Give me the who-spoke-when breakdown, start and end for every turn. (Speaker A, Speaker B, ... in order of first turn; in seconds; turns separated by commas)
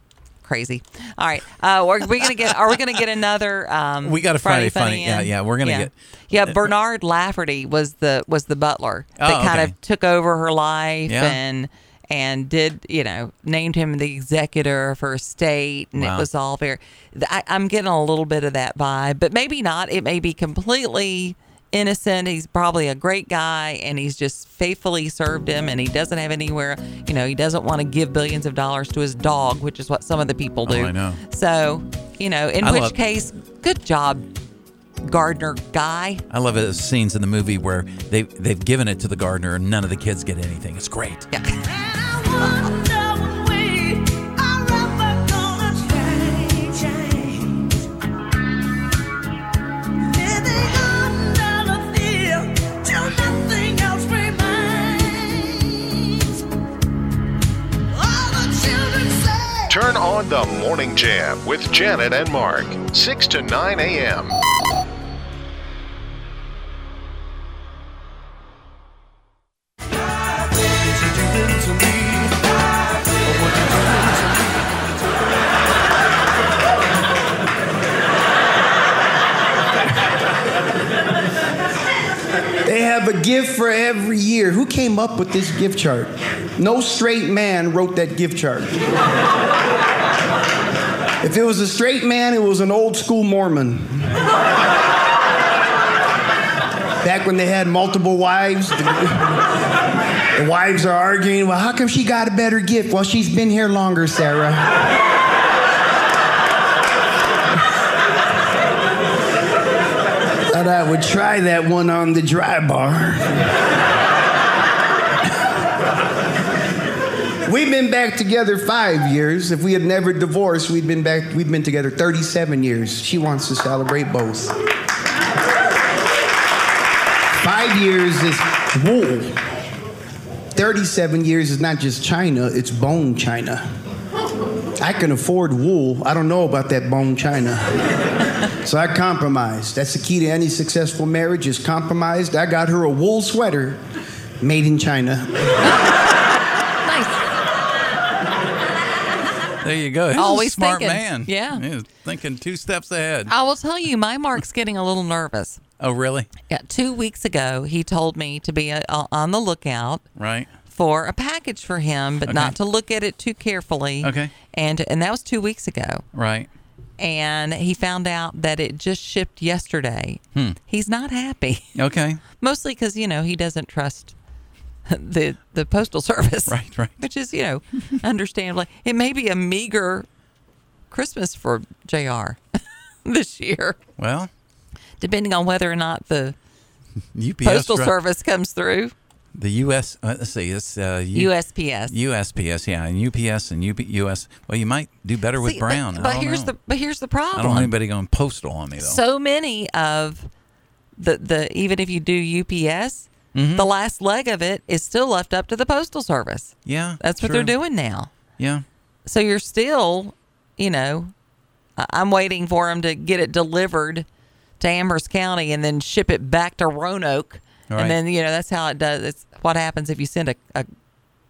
Speaker A: 0.4-34.3, Speaker B: 4.0-6.7, Speaker B: 9.2-9.7, Speaker B: 11.1-11.4, Speaker B: 15.9-16.3, Speaker B: 30.6-31.2, Speaker B: 32.6-33.0, Speaker A: 35.0-36.2, Speaker B: 36.3-41.3, Speaker A: 41.3-41.6, Speaker C: 41.6-47.6, Speaker C: 50.1-56.4, Speaker C: 57.9-59.8, Speaker D: 59.7-64.3, Speaker C: 71.0-72.4, Speaker C: 73.3-74.4, Speaker E: 82.6-88.8, Speaker E: 91.2-94.1, Speaker E: 97.0-99.4, Speaker E: 100.3-104.8, Speaker E: 110.5-113.5, Speaker E: 117.5-124.5, Speaker E: 127.4-129.4, Speaker E: 130.5-133.6, Speaker E: 134.8-137.8, Speaker E: 138.5-143.8, Speaker E: 144.4-145.5, Speaker A: 145.6-145.9, Speaker A: 146.8-147.3, Speaker B: 149.6-153.3, Speaker A: 150.1-151.6, Speaker A: 153.3-155.6, Speaker B: 155.8-156.3, Speaker A: 156.5-160.1, Speaker B: 160.2-160.5, Speaker A: 160.7-166.0, Speaker B: 162.2-162.5, Speaker B: 164.0-164.3, Speaker B: 166.1-166.5, Speaker A: 167.0-171.7, Speaker B: 171.7-172.2, Speaker A: 172.4-174.1, Speaker A: 174.9-180.1, Speaker B: 176.5-177.0, Speaker A: 180.9-182.4, Speaker A: 183.0-183.8, Speaker B: 184.0-184.3, Speaker A: 185.0-186.3, Speaker B: 187.1-187.9, Speaker A: 187.4-188.9, Speaker B: 189.3-191.3, Speaker A: 191.1-191.9, Speaker B: 191.9-196.5, Speaker A: 195.4-197.7, Speaker B: 197.3-199.0, Speaker A: 198.8-200.3, Speaker A: 201.0-208.1, Speaker B: 203.3-203.7, Speaker B: 206.6-207.6, Speaker B: 208.4-208.6, Speaker A: 209.1-211.1, Speaker A: 211.8-214.1, Speaker A: 214.6-220.7, Speaker B: 217.7-218.0